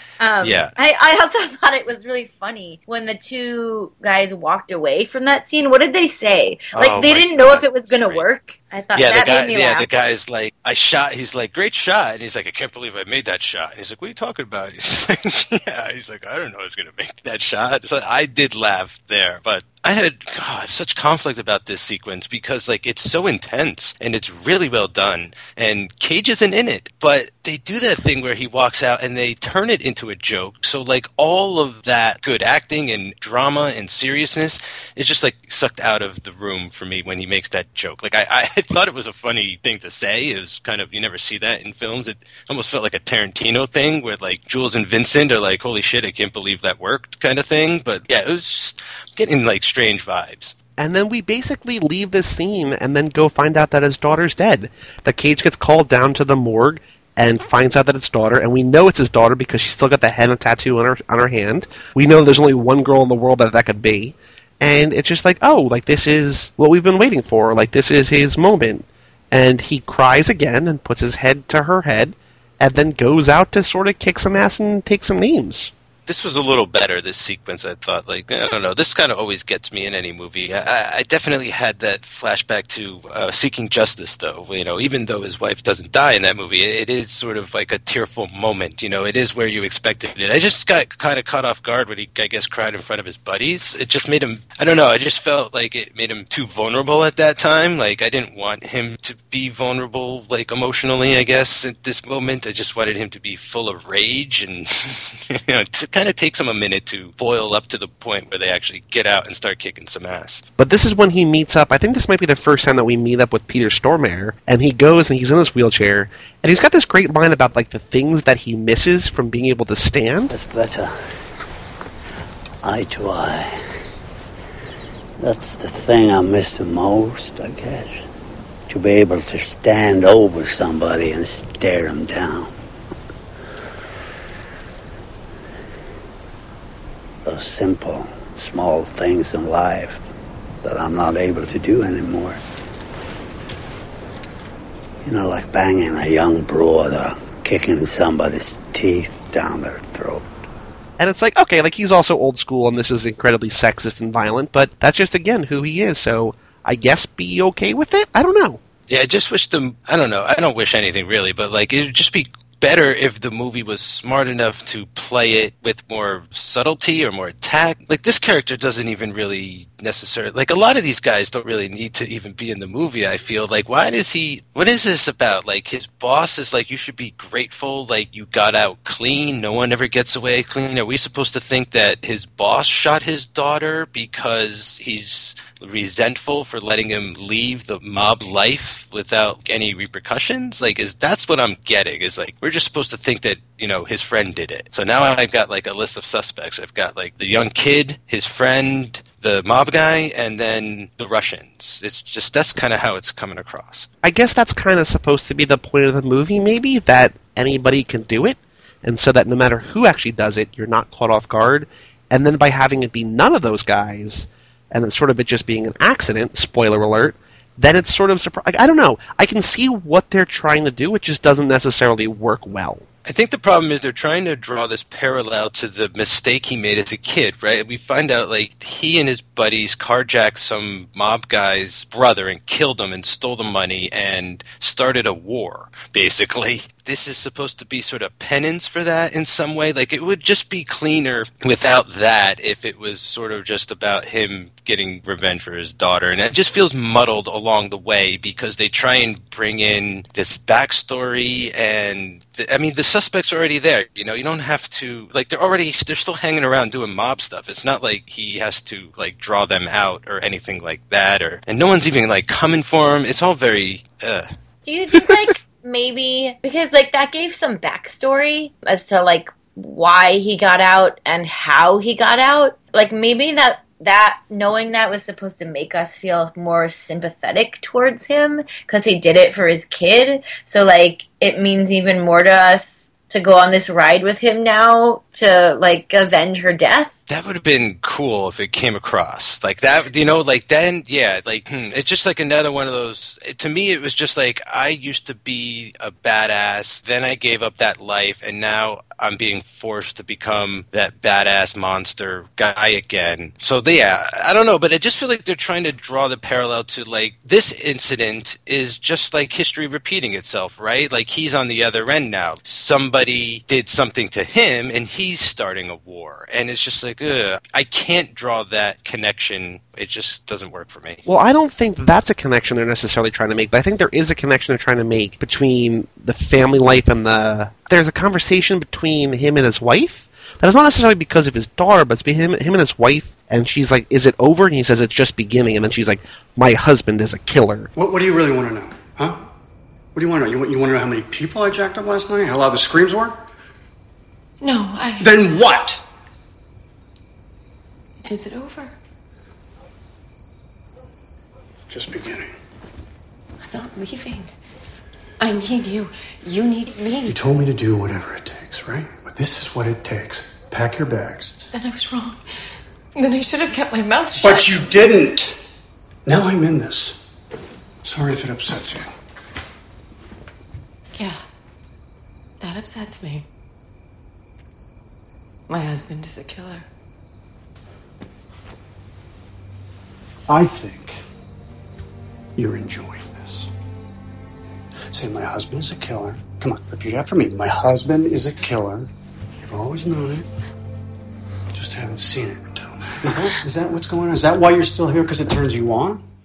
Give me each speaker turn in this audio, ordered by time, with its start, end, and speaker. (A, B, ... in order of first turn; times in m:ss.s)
0:00.2-0:09.9 A
0:00.4-0:00.7 B
0:06.7-0:08.2 B
0:08.9-0:50.6 B
0:50.8-1:15.7 C
1:16.0-1:50.4 B
1:50.6-2:00.3 C
2:00.3-2:01.1 D
2:02.6-2:03.6 D
2:05.2-2:08.1 D
2:08.7-2:12.5 D
2:17.2-2:20.0 D
2:20.6-2:22.4 D
2:25.0-2:30.3 D
2:31.0-2:38.6 C
2:38.9-3:23.9 B
3:24.0-3:42.8 C
3:43.0-4:24.3 B
4:24.6-4:46.9 A
4:47.1-5:21.0 B
5:21.0-5:37.7 C
5:37.8-5:39.2 E
5:39.9-5:43.2 E
5:44.4-5:45.2 F
5:45.0-5:45.8 E
5:48.0-5:48.7 F
5:51.7-5:52.4 E
5:53.4-5:54.3 F
5:55.2-5:57.2 F
5:57.1-6:01.4 E
6:01.5-6:02.2 F
6:02.9-6:04.7 F
6:04.2-6:05.4 E
6:06.0-6:07.0 E
6:07.8-6:08.9 E
6:10.9-6:11.2 F
6:12.4-6:13.3 F
6:15.5-6:16.7 F
6:20.3-6:21.0 E
6:22.4-6:23.5 E
6:24.9-6:28.9 E
6:29.4-6:30.3 E
6:31.5-6:36.0 E